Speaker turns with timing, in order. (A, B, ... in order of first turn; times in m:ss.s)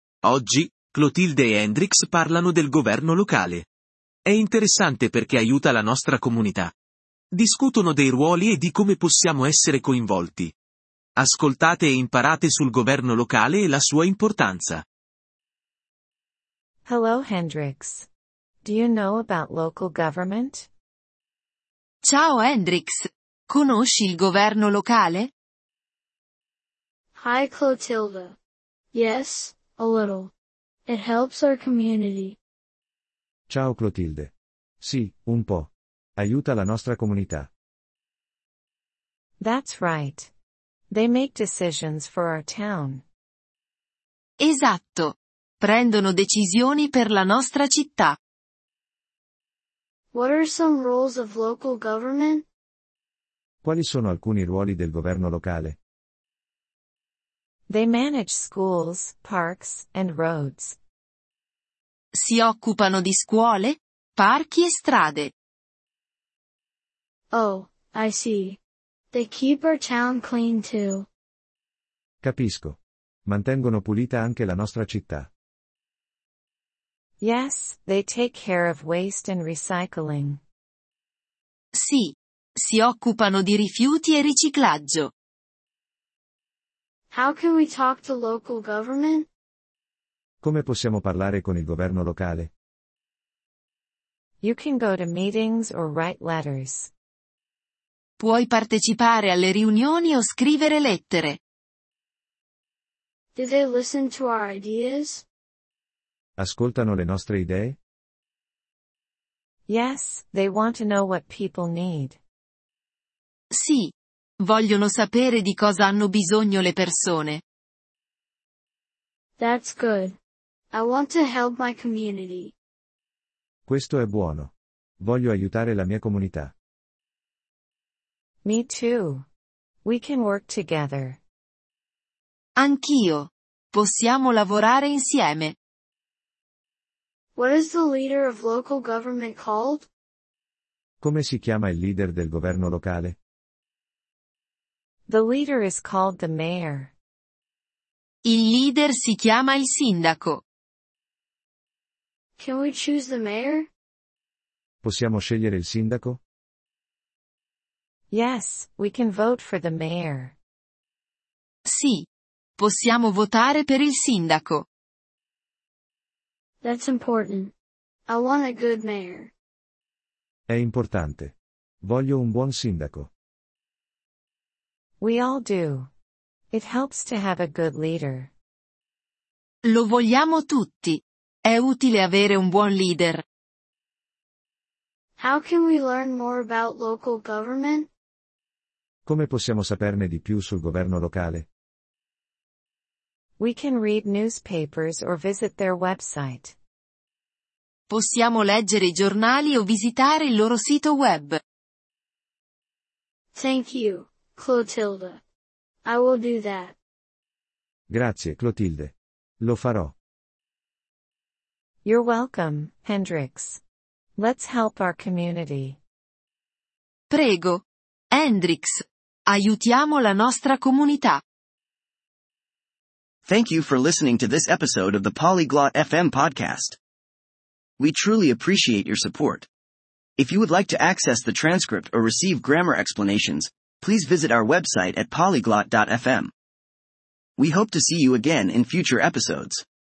0:00.2-0:03.7 A
0:04.3-0:06.7 A
0:07.3-0:10.5 A
0:11.2-0:14.8 A
0:16.8-0:18.1 B
0:18.6-0:20.7 B
0:22.0-0:25.3 C
0:27.1-0:28.4 D
0:28.9-0:30.3 D
0:30.9-0:32.4 D
0:33.5-0:37.5 E
0:39.4-0:40.3 B
0:40.9-0:43.0 B
0:44.4-0:48.2 C
0:50.1-0:52.5 D
0:53.6-0:55.8 E
0:57.7-1:00.8 B
1:02.1-1:05.3 C
1:07.3-1:08.6 D
1:09.1-1:11.1 D
1:12.2-1:15.3 E
1:17.2-1:20.4 B
1:21.7-1:25.1 C
1:27.1-1:29.3 D
1:30.4-1:32.5 E
1:34.4-1:36.9 B
1:38.2-1:41.4 C
1:43.4-1:45.2 D
1:46.4-1:47.8 E
1:49.7-1:52.2 B
1:53.5-1:57.4 C
1:59.4-2:00.2 D
2:00.7-2:02.5 D
2:03.7-2:06.5 E
2:08.4-2:09.2 B
2:09.8-2:11.2 B
2:12.6-2:15.6 C
2:17.4-2:19.9 D
2:21.0-2:23.2 E
2:25.1-2:26.9 B
2:28.2-2:30.4 C
2:32.4-2:33.7 D
2:34.8-2:36.2 E
2:38.1-2:40.4 B
2:41.7-2:44.6 C
2:46.6-2:47.5 D
2:48.1-2:49.3 D
2:50.5-2:53.1 E
2:55.0-2:55.9 B
2:56.5-2:58.3 B
2:59.6-3:03.2 C
3:05.2-3:07.9 D
3:09.1-3:11.5 E
3:13.4-3:16.6 B
3:17.9-3:21.4 C
3:23.3-3:25.2 D
3:25.8-3:26.8 D
3:27.9-3:29.9 E
3:31.8-3:33.6 B
3:34.2-3:35.8 B
3:37.1-3:41.2 C
3:43.2-3:46.8 F
3:47.8-3:49.5 F
3:50.2-3:56.3 F
3:57.4-3:59.6 F